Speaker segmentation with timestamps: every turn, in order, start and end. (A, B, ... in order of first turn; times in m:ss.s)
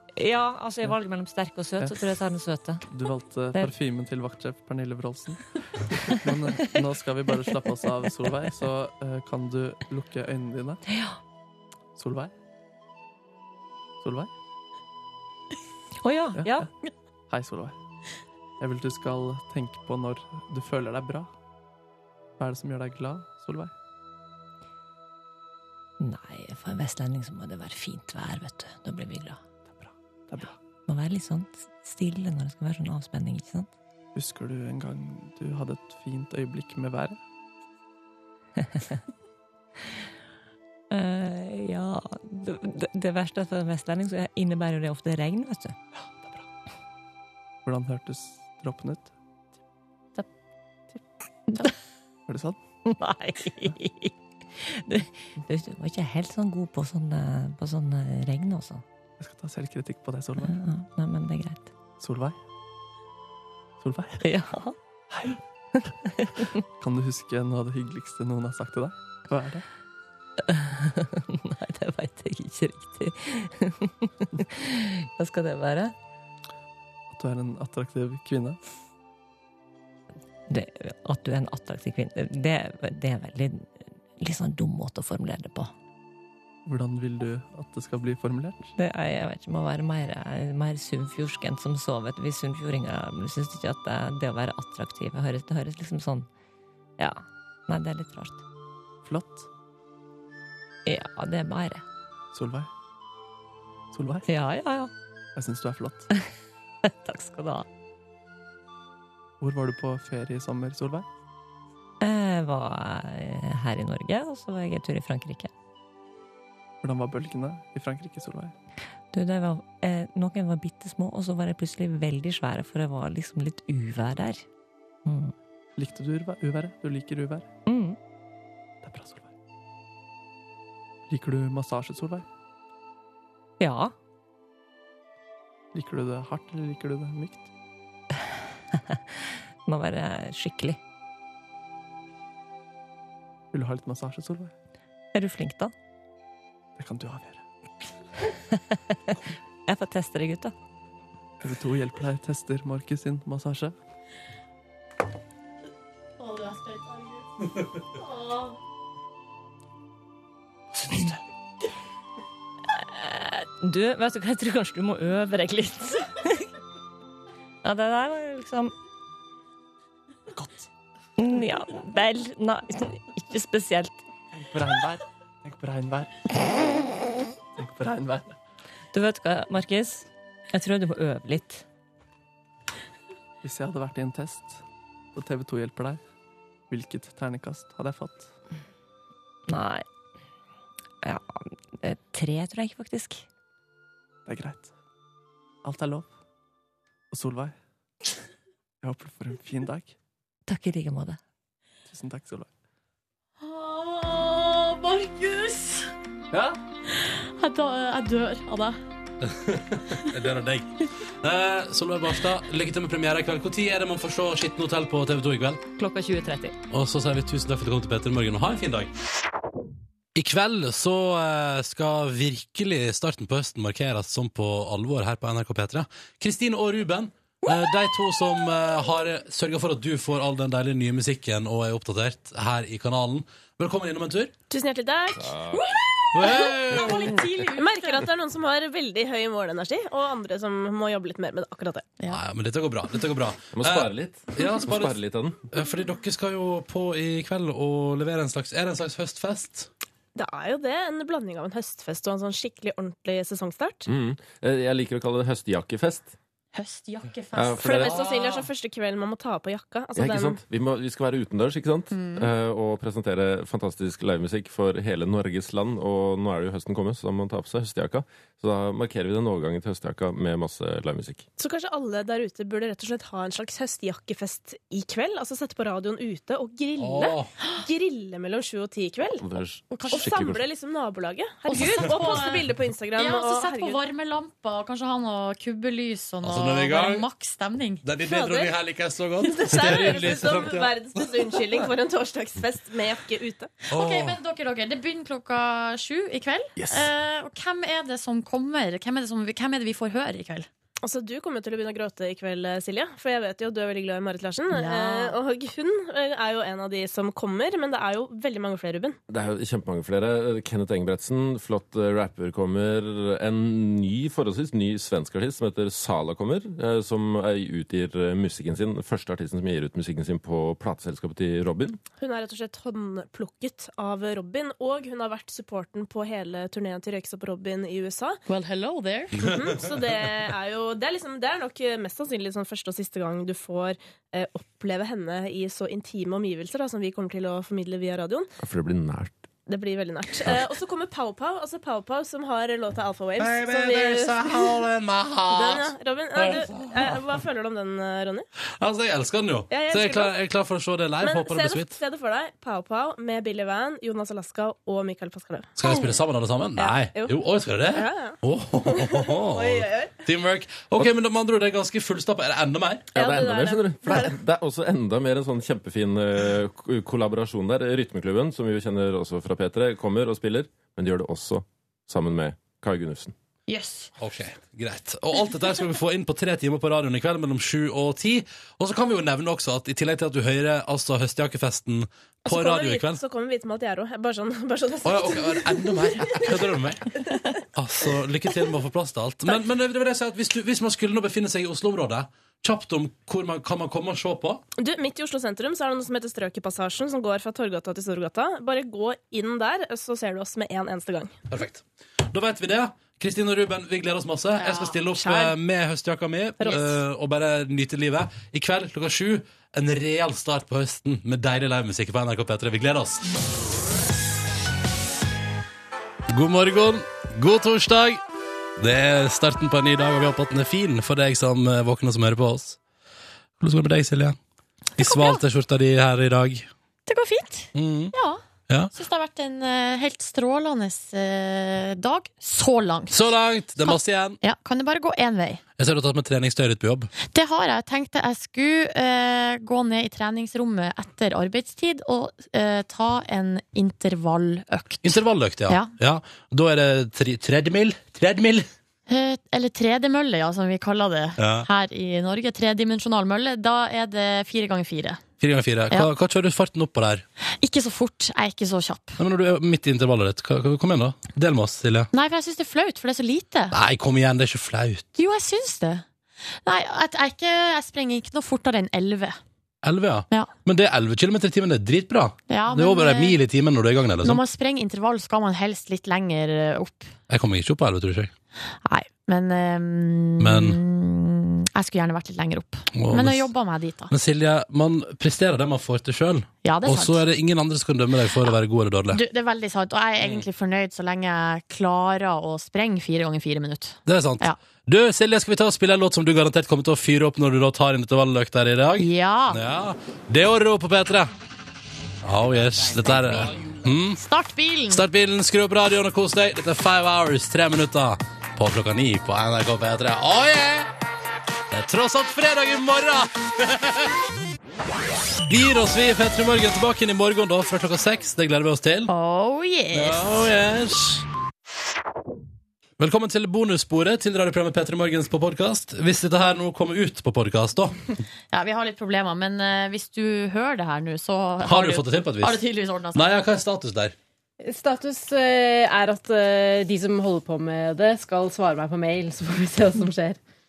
0:00.2-0:02.8 A
0:02.9-0:05.4 B
0:06.0-0:10.8 B
0:06.1-0:06.8 A
0:10.9-0:11.2 A
0:12.0-0:12.3 B
0:14.0-0:14.3 B
0:16.0-0:16.7 A
0:16.4-0:16.7 B
0:17.3-0:17.7 B
0:18.6-0:21.3 B
0:22.4-0:23.7 B
0:26.0-0:29.4 A
0:29.7-0:30.5 B
0:30.9-0:33.7 A
0:34.1-0:37.2 B
0:38.6-0:39.0 A
0:40.9-0:45.8 A
0:47.6-0:49.1 B
0:52.3-0:52.6 B
0:52.8-0:58.8 A
0:59.2-1:00.5 B
1:00.4-1:01.7 A
1:02.0-1:02.4 B
1:03.8-1:04.2 B
1:04.2-1:04.8 A
1:05.1-1:05.4 B
1:05.8-1:06.5 A
1:06.8-1:09.6 B
1:10.4-1:15.9 A
1:17.1-1:18.6 B
1:20.5-1:25.7 A
1:26.6-1:28.7 B
1:28.8-1:36.3 A
1:37.0-1:38.4 A
1:39.0-1:39.5 B
1:40.8-1:41.8 A
1:42.3-1:42.7 B
1:43.9-1:44.3 B
1:44.2-1:44.9 A
1:45.4-1:46.1 B
1:46.8-1:47.6 A
1:49.4-1:51.0 B
1:52.0-1:55.5 A
1:56.8-1:58.5 B
1:59.1-2:04.4 A
2:05.0-2:05.3 A
2:05.8-2:07.5 B
2:07.6-2:08.0 A
2:08.8-2:09.3 B
2:11.1-2:12.2 B
2:13.6-2:13.9 A
2:15.7-2:17.5 B
2:18.7-2:20.8 A
2:23.5-2:24.5 B
2:25.1-2:25.7 A
2:26.8-2:27.4 B
2:28.5-2:30.5 A
2:31.4-2:33.7 B
2:36.2-2:37.2 C
2:37.9-2:38.5 C
2:40.9-2:41.1 B
2:42.8-2:46.5 A
2:47.6-2:48.7 A
2:50.3-2:50.7 B
2:51.2-2:54.0 A
2:54.4-2:56.4 B
2:57.6-2:58.4 B
2:58.9-3:01.6 A
3:03.4-3:04.6 B
3:05.1-3:06.0 B
3:06.7-3:08.3 B
3:09.5-3:09.8 A
3:11.0-3:13.2 A
3:14.2-3:14.7 B
3:15.6-3:16.1 B
3:17.1-3:17.5 B
3:18.8-3:19.9 B
3:20.5-3:21.2 A
3:21.9-3:22.5 B
3:23.4-3:25.9 C
3:26.3-3:26.6 B
3:26.9-3:28.8 C
3:29.2-3:35.6 D
3:35.8-3:36.5 A
3:36.7-3:38.9 D
3:40.1-3:54.3 D
3:54.5-3:55.4 E
3:55.2-3:55.7 F
3:55.5-3:58.0 C
3:56.1-3:57.2 D
3:57.5-4:01.9 E
4:02.1-4:09.7 D
4:03.5-4:05.4 F
4:10.2-4:13.9 E
4:13.9-4:16.1 F
4:16.5-4:17.9 C
4:17.3-4:18.0 F
4:17.6-4:20.4 E
4:17.9-4:18.4 D
4:20.0-4:31.2 F
4:21.9-4:22.3 C
4:31.4-4:39.2 E
4:36.8-4:37.3 D
4:39.2-4:40.4 F
4:39.7-4:40.1 C
4:39.9-4:43.8 E
4:41.5-4:47.8 C
4:46.2-4:47.1 D
4:47.8-4:50.8 D
4:48.0-4:48.5 E
4:49.2-4:53.5 E
4:53.7-5:00.5 C
4:53.7-4:54.2 D
5:00.8-5:09.0 E
5:04.5-5:05.2 C
5:09.1-5:21.8 F
5:22.0-5:28.2 E
5:28.3-5:29.3 C
5:29.2-5:38.3 E
5:38.4-5:39.2 F
5:39.5-5:44.6 E
5:43.2-5:47.0 D
5:45.3-5:48.3 E
5:48.6-5:51.8 D
5:49.5-5:50.1 E
5:51.0-5:55.9 E
5:55.6-6:02.9 D
5:56.6-5:59.9 E
6:02.9-6:13.1 F
6:02.9-6:04.2 E
6:13.5-6:13.9 C
6:14.0-6:23.0 D
6:22.2-6:26.6 E
6:24.8-6:34.4 D
6:34.6-6:41.1 E
6:41.3-6:53.1 D
6:44.4-6:44.8 C
6:44.9-6:45.3 E
6:46.4-6:46.7 E
6:56.1-6:58.0 D
6:58.6-7:02.6 D
7:03.4-7:04.2 D
7:04.8-7:06.5 D
7:04.8-7:05.2 C
7:06.9-7:08.2 C
7:07.5-7:07.9 D
7:08.7-7:15.4 C
7:12.9-7:14.2 D
7:15.6-7:16.9 D
7:17.0-7:25.7 C
7:24.8-7:28.5 D
7:28.9-7:35.0 C
7:31.2-7:31.5 D
7:35.2-7:37.0 D
7:37.4-7:39.0 C
7:39.0-7:41.9 D
7:41.9-7:43.6 C
7:43.5-7:44.9 D
7:45.0-7:45.8 C
7:46.4-7:49.2 C
7:49.6-7:54.2 D
7:52.3-7:53.2 C
7:54.0-7:56.9 C
7:57.1-7:58.1 D
7:58.6-8:03.9 C
8:00.2-8:00.6 D
8:02.7-8:03.3 D
8:03.9-8:09.0 D
8:06.4-8:07.0 C
8:08.9-8:14.4 C
8:13.8-8:21.1 D
8:18.8-8:19.4 C
8:22.0-8:24.0 D
8:22.8-8:24.8 C
8:24.7-8:30.7 D
8:31.5-8:33.9 D
8:35.2-8:38.9 D
8:38.9-8:40.2 C
8:39.7-8:41.0 D
8:42.8-8:47.8 D
8:48.3-8:53.0 C
8:51.4-8:53.9 D
8:54.4-9:00.2 G